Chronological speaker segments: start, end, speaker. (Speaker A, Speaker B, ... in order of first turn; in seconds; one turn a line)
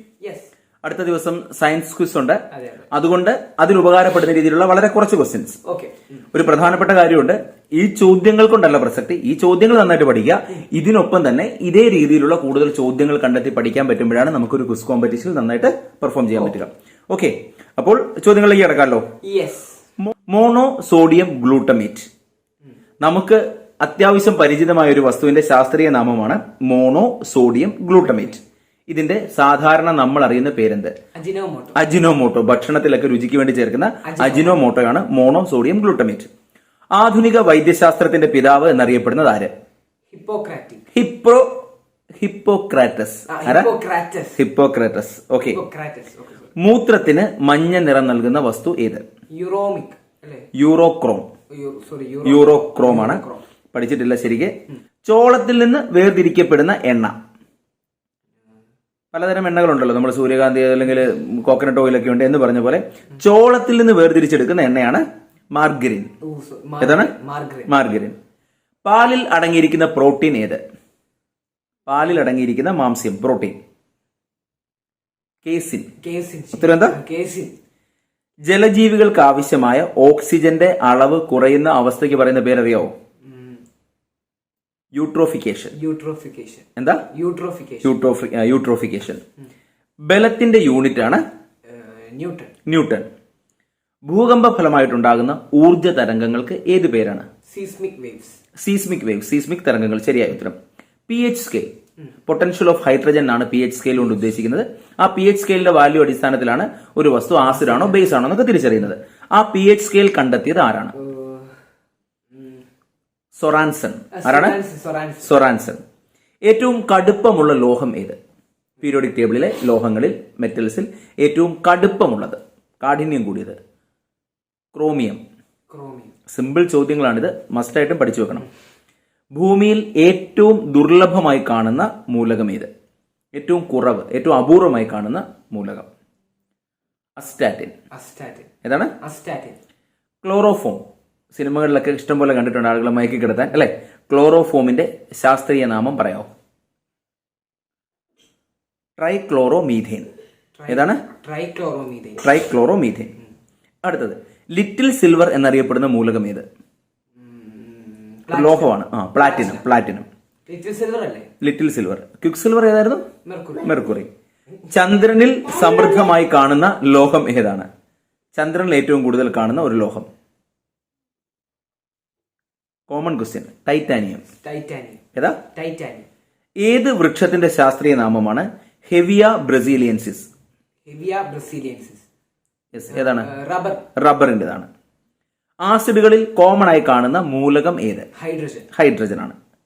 Speaker A: 0.2-0.5
Speaker B: 0.8-5.6
Speaker A: 2.5-2.9
Speaker A: 5.7-6.1
Speaker B: 6.3-19.1
Speaker A: 19.2-19.8
Speaker B: 20.0-22.1
Speaker B: 23.0-30.9
Speaker A: 31.1-31.8
Speaker B: 31.8-36.3
Speaker A: 34.0-34.6
Speaker B: 37.0-39.5
Speaker A: 40.1-40.8
Speaker B: 40.9-41.5
Speaker B: 42.2-43.7
Speaker A: 43.3-44.4
Speaker B: 44.4-45.6
Speaker A: 45.5-46.5
Speaker B: 46.6-49.0
Speaker A: 49.3-50.5
Speaker B: 50.5-51.3
Speaker A: 51.5-53.4
Speaker B: 52.2-54.5
Speaker B: 55.0-57.1
Speaker B: 59.1-66.1
Speaker A: 66.2-67.7
Speaker B: 66.8-67.1
Speaker B: 67.7-68.2
Speaker B: 68.8-70.6
Speaker B: 71.9-73.6
Speaker B: 75.4-75.9
Speaker A: 76.0-77.5
Speaker B: 76.6-77.0
Speaker B: 78.5-82.9
Speaker A: 83.3-83.6
Speaker B: 85.0-85.8
Speaker A: 85.7-87.9
Speaker B: 86.8-87.0
Speaker B: 87.8-89.2
Speaker B: 90.0-91.2
Speaker A: 91.7-92.5
Speaker B: 92.7-93.1
Speaker B: 94.1-97.3
Speaker A: 97.5-98.4
Speaker B: 98.6-100.6
Speaker B: 101.1-101.7
Speaker B: 102.3-111.0
Speaker A: 107.5-108.1
Speaker A: 111.0-111.5
Speaker A: 112.3-112.6
Speaker B: 113.4-114.6
Speaker A: 114.1-115.3
Speaker B: 115.2-115.8
Speaker B: 116.5-118.2
Speaker B: 118.8-123.6
Speaker B: 124.7-125.2
Speaker A: 125.7-126.1
Speaker B: 126.3-128.5
Speaker B: 129.3-132.7
Speaker B: 133.3-135.9
Speaker B: 137.2-137.7
Speaker A: 137.9-138.5
Speaker B: 138.6-138.9
Speaker A: 139.0-139.6
Speaker B: 140.2-140.8
Speaker B: 141.3-146.3
Speaker B: 149.0-150.1
Speaker A: 150.6-152.3
Speaker B: 150.7-151.0
Speaker B: 152.2-153.1
Speaker B: 153.8-156.5
Speaker A: 157.2-159.7
Speaker B: 158.3-160.1
Speaker A: 160.5-161.3
Speaker B: 161.4-163.1
Speaker A: 163.2-164.0
Speaker B: 163.6-164.1
Speaker B: 164.7-167.7
Speaker B: 168.4-170.1
Speaker B: 172.9-174.2
Speaker A: 174.4-175.0
Speaker B: 175.2-175.4
Speaker A: 175.5-176.1
Speaker B: 176.6-180.3
Speaker A: 180.9-182.0
Speaker B: 182.7-183.3
Speaker A: 182.9-183.9
Speaker B: 184.0-184.7
Speaker B: 185.6-188.1
Speaker A: 188.2-188.7
Speaker B: 188.7-189.4